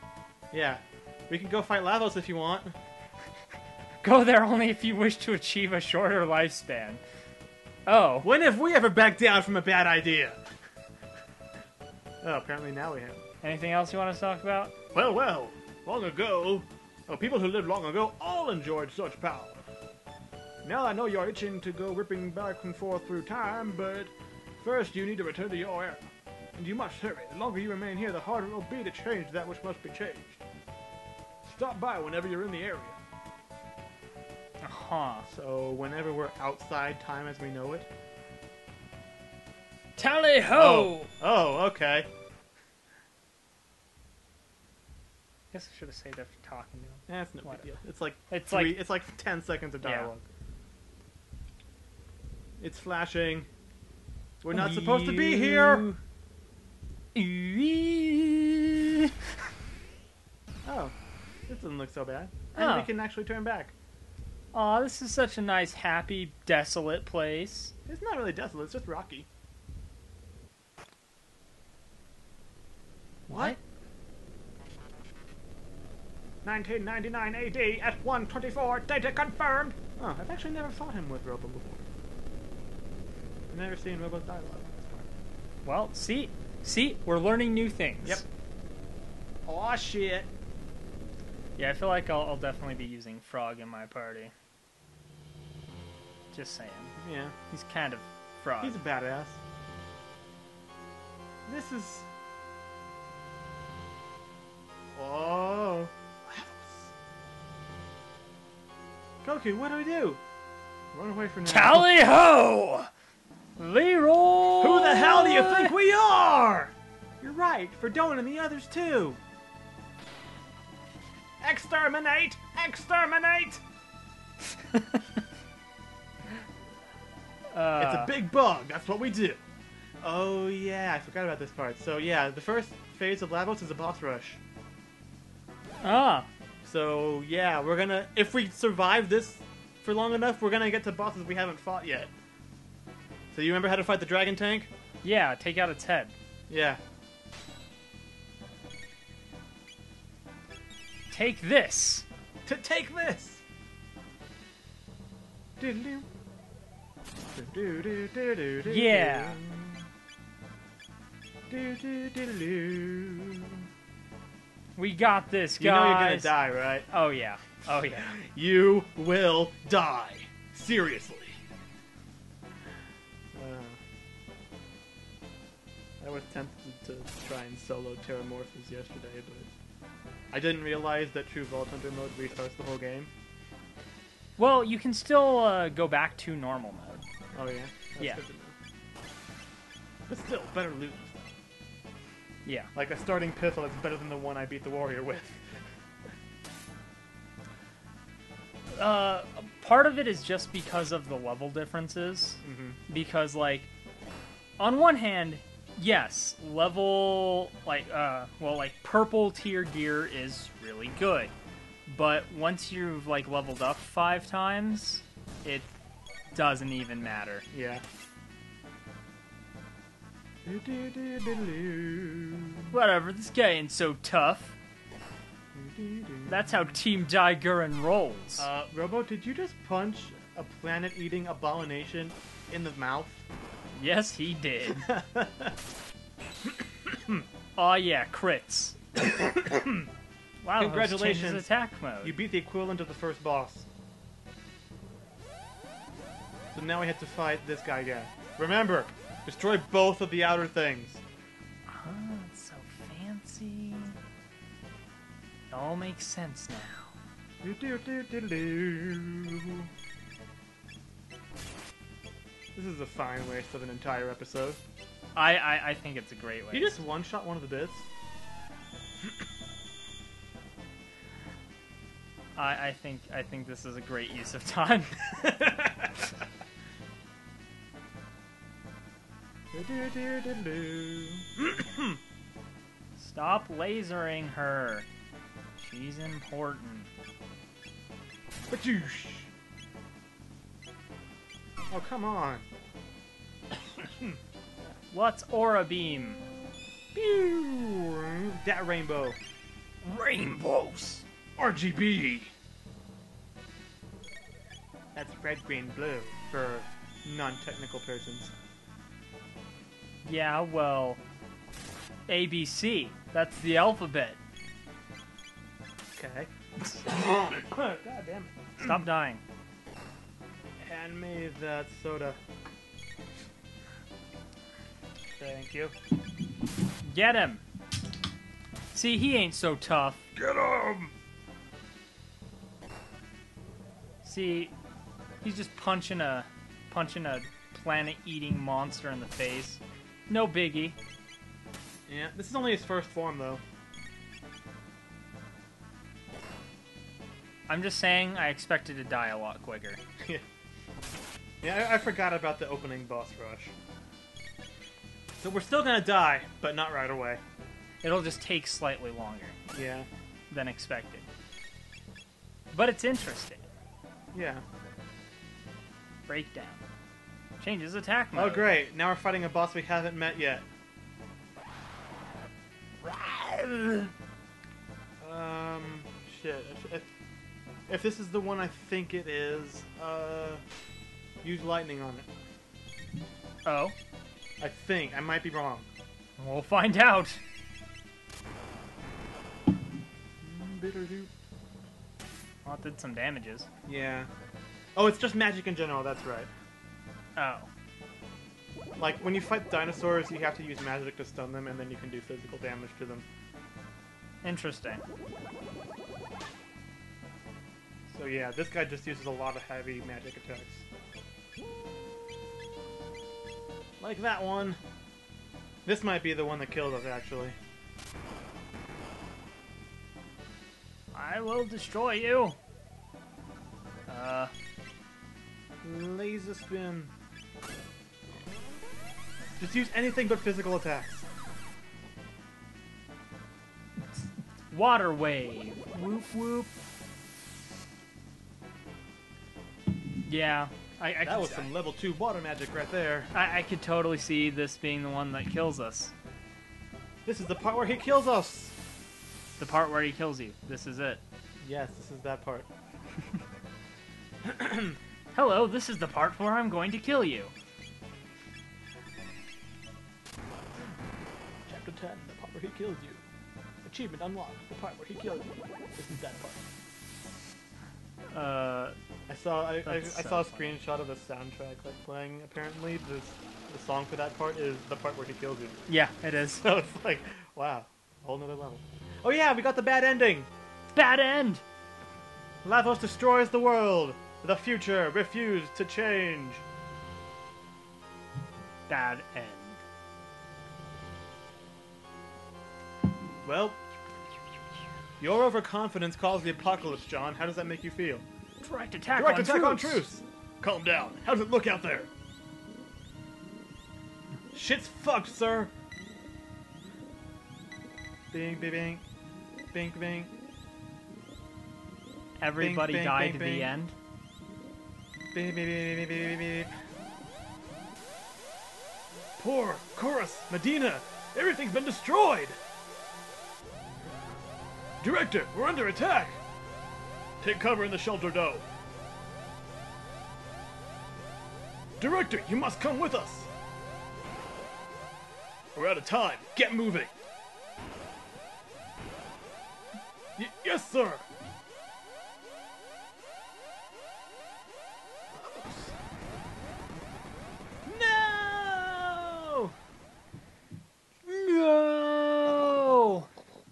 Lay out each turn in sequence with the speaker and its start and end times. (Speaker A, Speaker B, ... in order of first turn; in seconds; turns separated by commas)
Speaker A: 0.5-2.7, Speaker B: 4.0-7.0, Speaker B: 7.8-8.3, Speaker A: 8.2-10.4, Speaker A: 12.2-13.2, Speaker B: 13.4-14.8, Speaker A: 14.9-19.7, Speaker A: 20.6-30.4, Speaker A: 31.4-33.0, Speaker B: 34.6-35.3, Speaker A: 35.3-37.9, Speaker B: 40.0-41.1, Speaker A: 40.5-42.1, Speaker B: 45.5-47.7, Speaker A: 47.1-50.2, Speaker B: 48.3-48.8, Speaker B: 49.8-50.1, Speaker A: 52.6-53.5, Speaker A: 54.4-55.9, Speaker B: 54.5-56.0, Speaker B: 57.1-59.1, Speaker A: 60.6-60.9, Speaker A: 61.5-63.7, Speaker B: 62.5-62.9, Speaker B: 64.5-67.7, Speaker A: 67.8-69.3, Speaker A: 73.3-73.6, Speaker B: 73.3-73.6, Speaker A: 76.4-81.8, Speaker A: 83.5-85.1, Speaker B: 85.6-88.2, Speaker A: 89.5-90.3, Speaker B: 91.6-94.3, Speaker B: 96.3-96.9, Speaker A: 97.0-97.3, Speaker B: 97.5-98.8, Speaker A: 98.6-99.4, Speaker A: 101.5-102.1, Speaker A: 104.9-106.9, Speaker A: 109.2-110.2, Speaker A: 110.9-111.9, Speaker B: 111.4-112.9, Speaker B: 113.6-115.7, Speaker A: 114.6-119.2, Speaker A: 121.4-123.6, Speaker B: 127.5-128.1, Speaker A: 127.8-129.4, Speaker A: 130.0-134.4, Speaker B: 135.8-136.3, Speaker A: 136.6-142.1, Speaker A: 143.3-144.7, Speaker B: 145.0-146.1, Speaker A: 146.5-146.8, Speaker B: 151.1-152.0, Speaker A: 152.4-153.4, Speaker A: 155.6-156.1, Speaker A: 157.3-159.9, Speaker B: 158.6-159.4, Speaker A: 161.5-163.6, Speaker B: 164.8-166.3, Speaker A: 165.6-166.9, Speaker B: 166.9-168.1, Speaker A: 167.8-171.4, Speaker A: 173.3-173.8, Speaker A: 176.0-179.5, Speaker A: 180.3-183.1, Speaker B: 184.4-187.0, Speaker A: 187.3-188.5, Speaker A: 190.1-191.3, Speaker B: 192.4-192.7, Speaker A: 192.7-195.6, Speaker B: 198.7-203.7, Speaker A: 202.4-202.8, Speaker B: 204.6-211.3, Speaker B: 211.9-215.7, Speaker B: 216.3-217.4, Speaker A: 217.5-217.8, Speaker A: 220.4-222.8, Speaker B: 222.7-224.6, Speaker A: 225.5-226.7, Speaker B: 226.3-228.5, Speaker A: 228.4-233.2, Speaker B: 233.7-234.9, Speaker A: 234.8-235.5, Speaker B: 237.6-238.8, Speaker A: 239.2-239.9, Speaker B: 240.4-242.2, Speaker A: 240.6-241.5, Speaker A: 242.0-243.7, Speaker A: 246.5-251.0, Speaker B: 251.7-254.0, Speaker B: 255.5-256.9, Speaker A: 257.4-259.7, Speaker A: 262.5-264.6, Speaker B: 265.1-266.8, Speaker A: 266.5-267.9, Speaker B: 272.4-275.2, Speaker A: 275.2-275.7, Speaker A: 279.5-282.0, Speaker B: 283.0-284.9, Speaker B: 285.6-286.9, Speaker A: 288.5-289.3, Speaker A: 291.7-292.5, Speaker A: 293.8-294.1, Speaker B: 294.9-296.2, Speaker A: 296.9-299.2, Speaker B: 299.8-301.0, Speaker A: 301.4-302.3, Speaker A: 304.9-308.3, Speaker B: 310.0-311.0, Speaker B: 312.1-314.2, Speaker A: 315.9-316.3, Speaker A: 316.8-318.8, Speaker B: 318.6-319.2, Speaker A: 320.6-322.2, Speaker A: 325.2-325.7, Speaker B: 326.8-327.4, Speaker B: 328.7-330.1, Speaker A: 330.1-330.9, Speaker B: 334.0-334.5, Speaker B: 335.2-340.8, Speaker A: 341.9-343.4, Speaker B: 347.5-349.8, Speaker A: 351.4-353.5, Speaker A: 355.2-357.2, Speaker B: 357.8-359.4, Speaker A: 359.5-359.9, Speaker B: 360.3-361.1, Speaker B: 362.5-363.5, Speaker A: 364.1-364.4, Speaker B: 366.1-366.6, Speaker B: 367.4-368.5, Speaker A: 368.1-370.4, Speaker B: 372.8-373.9, Speaker A: 375.0-376.9, Speaker A: 377.7-380.4, Speaker A: 381.2-382.1, Speaker B: 383.4-383.7, Speaker A: 384.4-385.7, Speaker B: 386.2-387.2, Speaker A: 390.2-391.1, Speaker B: 392.4-393.5, Speaker A: 393.6-394.1, Speaker A: 394.7-396.3, Speaker B: 397.1-397.5, Speaker A: 398.8-403.1, Speaker B: 404.2-404.8, Speaker A: 407.9-410.6, Speaker A: 413.8-414.6, Speaker A: 415.6-417.4, Speaker B: 420.9-422.4, Speaker B: 423.9-424.3, Speaker A: 425.6-426.9, Speaker A: 429.4-431.0, Speaker B: 433.9-436.5, Speaker B: 440.0-441.5, Speaker A: 441.0-443.1, Speaker B: 443.1-445.9, Speaker A: 447.1-448.6, Speaker B: 449.4-451.0, Speaker A: 451.4-452.5, Speaker A: 454.2-454.8, Speaker B: 455.1-457.3, Speaker A: 461.5-463.1, Speaker A: 463.6-466.4, Speaker B: 468.1-468.8, Speaker A: 469.1-475.6, Speaker B: 469.6-470.6, Speaker B: 475.7-476.4, Speaker A: 476.4-480.3, Speaker B: 480.7-481.4, Speaker A: 482.4-486.4, Speaker B: 488.7-489.6, Speaker A: 493.2-493.6, Speaker A: 495.0-498.0, Speaker B: 498.4-499.8, Speaker A: 498.9-501.9, Speaker A: 504.3-505.5, Speaker A: 508.1-508.8, Speaker A: 509.5-510.1, Speaker B: 512.2-513.7, Speaker A: 512.4-513.5, Speaker A: 515.1-516.5, Speaker A: 519.2-522.4, Speaker A: 524.8-526.2, Speaker A: 527.2-528.4, Speaker A: 531.8-533.3, Speaker A: 535.5-536.9, Speaker A: 540.2-541.0, Speaker A: 545.1-545.7, Speaker A: 547.6-549.5, Speaker B: 551.0-553.1